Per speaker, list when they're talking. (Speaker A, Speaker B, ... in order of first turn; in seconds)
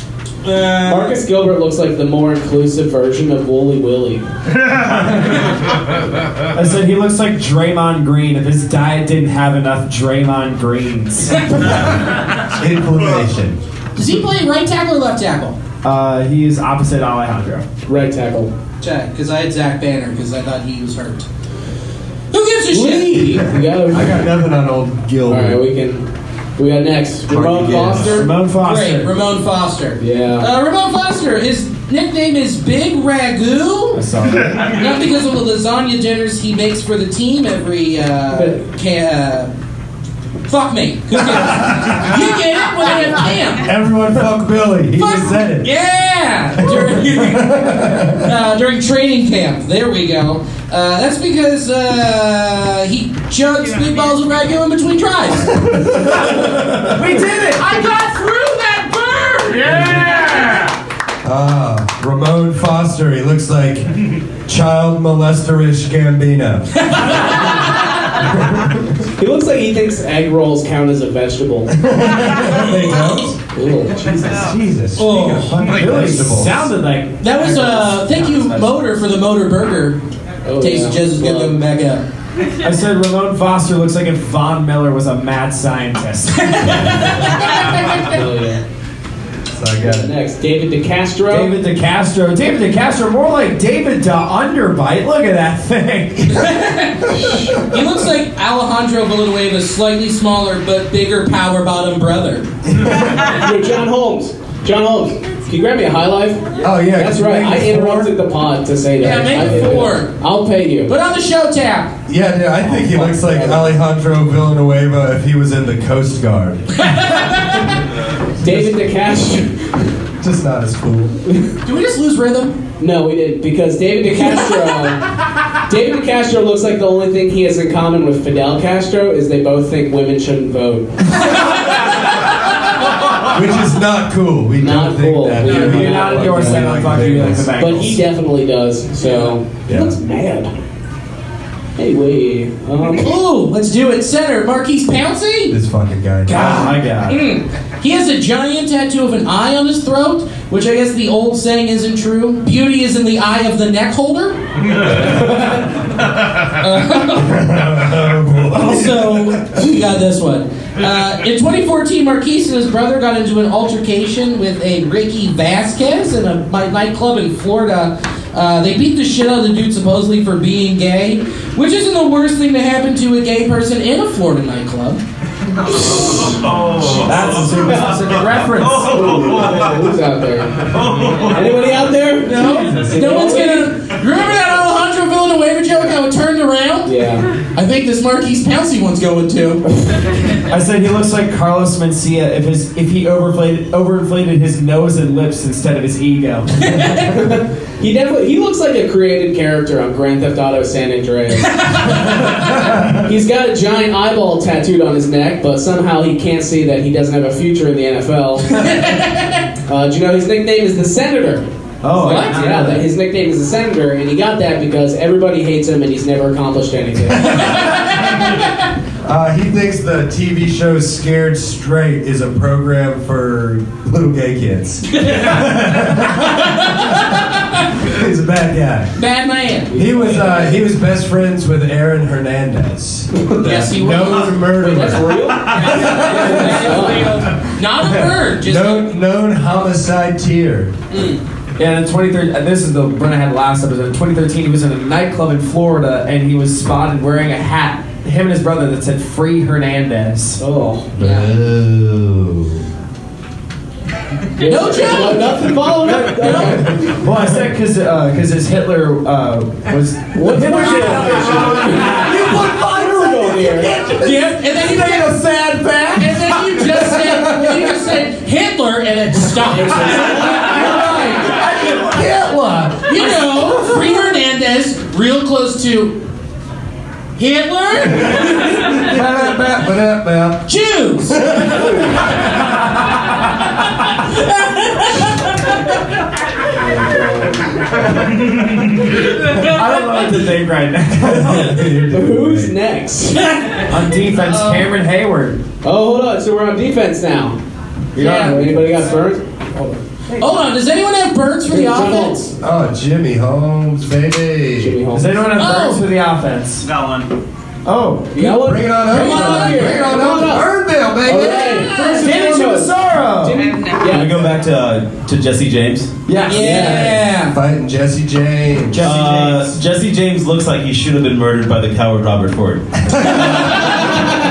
Speaker A: 0.4-1.2, 13.9-15.6, 18.8-21.3, 22.3-23.3, 28.6-34.0, 34.6-39.5, 40.5-43.7, 45.0-55.6, 57.5-60.7, 66.8-67.6, 75.0-75.6, 77.2-80.0, 80.6-82.0, 86.6-88.2, 96.3-102.5, 109.0-110.1, 110.9-111.9, 116.8-117.7, 121.6-122.6, 139.0-139.3, 142.9-145.6, 146.3-155.6, 156.4-157.6, 158.5-175.0, 182.3-189.6, 196.7-197.1, 208.6-209.4, 212.0-212.3, 225.1-225.4, 226.3-227.2, 229.0-229.7, 233.4-234.5, 235.4-238.9, 240.9-241.2, 251.0-251.4, 254.4-255.5, 256.2-256.6, 260.8-261.2, 263.9-265.2, 266.0-271.5, 272.9-276.0, 277.2-278.9, 280.5-281.3, 284.0-285.6, 293.2-294.7, 298.0-298.4, 300.2-302.2, 305.4-305.8, 308.9-310.1, 311.8-312.1, 316.3-317.4
Speaker B: 0.8-4.2, 17.9-18.5, 22.7-24.3, 25.3-26.0, 26.6-28.3, 30.0-30.5, 38.3-38.6, 69.2-71.7, 73.5-74.5, 80.5-81.6, 87.4-88.6, 89.8-91.5, 97.1-97.7, 103.0-110.9, 112.7-113.7, 118.4-119.9, 122.8-125.0, 125.7-131.0, 134.6-136.7, 137.6-140.5, 141.8-143.1, 175.7-176.4, 177.6-177.9, 178.8-180.7, 181.2-183.7, 186.8-187.3, 197.2-208.7, 209.7-211.4, 212.0-217.6, 229.7-230.6, 234.5-237.3, 250.4-250.9, 254.4-256.9, 260.1-263.8, 269.4-271.2, 286.5-287.9, 291.9-293.3, 295.6-297.4, 297.9-300.4, 301.5-302.3, 304.6-305.1, 308.1-310.5, 311.0-314.3, 316.3-317.0
Speaker C: 6.5-11.6, 15.8-17.7, 28.0-29.1, 34.0-34.7, 56.8-57.7, 75.6-78.8, 82.6-86.8, 91.3-96.5, 135.5-138.0, 146.3-147.2, 176.9-179.1, 182.3-183.0, 190.5-196.9, 211.8-212.9, 241.6-250.4, 256.7-262.0, 289.3-291.6, 293.6-295.4, 298.0-298.8, 304.9-306.7, 307.6-308.4, 311.7-313.5, 316.1-316.9, 318.7-319.6
Speaker D: 11.6-13.6, 23.8-25.6, 27.3-28.2, 34.3-34.6, 41.6-42.0, 43.6-45.7, 46.6-48.3, 55.5-56.9, 59.7-60.2, 61.2-66.9, 68.2-69.0, 71.7-73.4, 74.3-76.7, 89.5-90.1, 102.7-103.3, 106.6-108.1, 109.3-109.8, 112.1-116.7, 118.4-118.8, 120.2-121.1, 133.3-137.5, 139.7-140.0, 145.5-146.4, 157.2-159.6, 219.1-227.2, 227.8-228.9, 229.7-237.3, 238.0-240.7, 261.8-267.9, 269.9-273.9, 278.1-280.5, 281.1-282.1, 290.9-292.5, 302.4-304.8, 308.2-311.7, 316.6-318.9, 323.0-323.3
Speaker E: 175.9-179.7, 180.6-181.8, 251.0-251.8, 306.7-307.1, 313.8-316.0, 318.8-322.7